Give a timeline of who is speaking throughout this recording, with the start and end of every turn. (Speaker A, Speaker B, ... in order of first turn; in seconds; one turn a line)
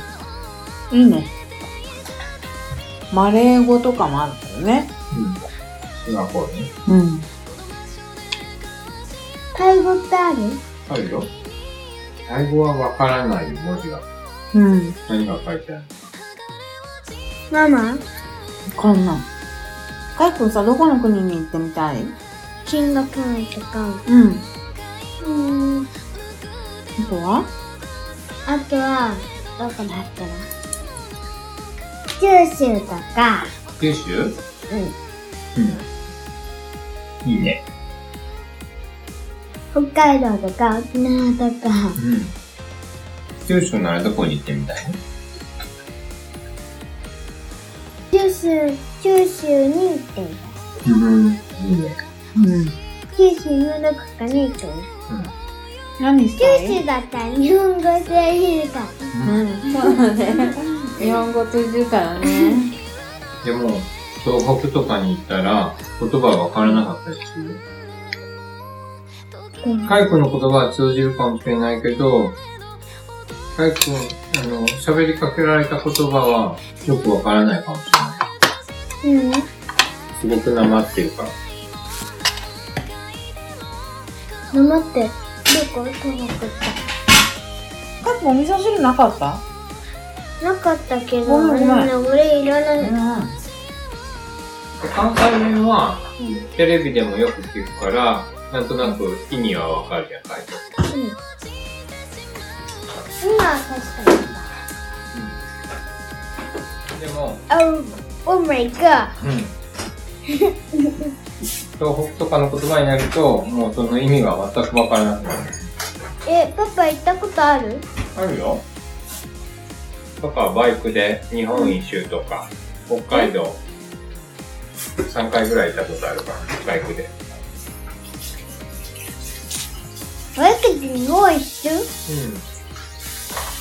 Speaker A: 0.9-1.3
Speaker A: 3.1-4.9
Speaker B: 5.1-5.4
Speaker B: 5.9-6.7
Speaker A: 6.8-7.3
Speaker C: 9.5-10.6
Speaker B: 10.8-11.3
Speaker B: 12.2-14.0
Speaker A: 14.5-15.0
Speaker B: 15.1-15.9
Speaker C: 17.5-18.0
Speaker A: 18.7-19.3
Speaker A: 20.1-22.2
Speaker C: 22.6-24.0
Speaker A: 24.1-24.4
Speaker C: 25.2-25.9
Speaker A: 27.0-27.5
Speaker C: 28.4-30.5
Speaker C: 32.1-33.5
Speaker B: 33.8-34.4
Speaker C: 34.7-34.9
Speaker B: 35.5-35.8
Speaker B: 37.2-37.6
Speaker C: 39.7-42.0
Speaker B: 42.0-42.3
Speaker B: 43.4-45.0
Speaker C: 48.1-50.6
Speaker B: 50.8-52.0
Speaker A: 52.4-52.7
Speaker C: 53.1-54.9
Speaker A: 56.0-56.8
Speaker C: 56.4-59.0
Speaker B: 59.1-59.4
Speaker A: 59.2-62.7
Speaker C: 62.2-62.5
Speaker B: 63.4-67.6
Speaker C: 69.6-69.9
Speaker B: 69.8-72.4
Speaker B: 73.5-78.2
Speaker C: 79.0-79.5
Speaker B: 80.2-81.3
Speaker C: 84.5-86.8
Speaker A: 88.0-89.4
Speaker C: 90.4-92.9
Speaker A: 91.2-91.9
Speaker A: 92.8-93.4
Speaker B: 94.8-100.6
Speaker C: 100.9-101.2
Speaker C: 103.2-104.5
Speaker B: 105.1-105.4
Speaker B: 106.9-107.4
Speaker C: 107.5-109.1
Speaker B: 109.2-109.5
Speaker C: 110.3-111.1
Speaker B: 111.8-115.6
Speaker C: 116.2-117.8
Speaker B: 118.1-118.6
Speaker B: 120.2-123.6
Speaker B: 125.0-127.1
Speaker C: 130.3-131.9
Speaker B: 132.1-132.4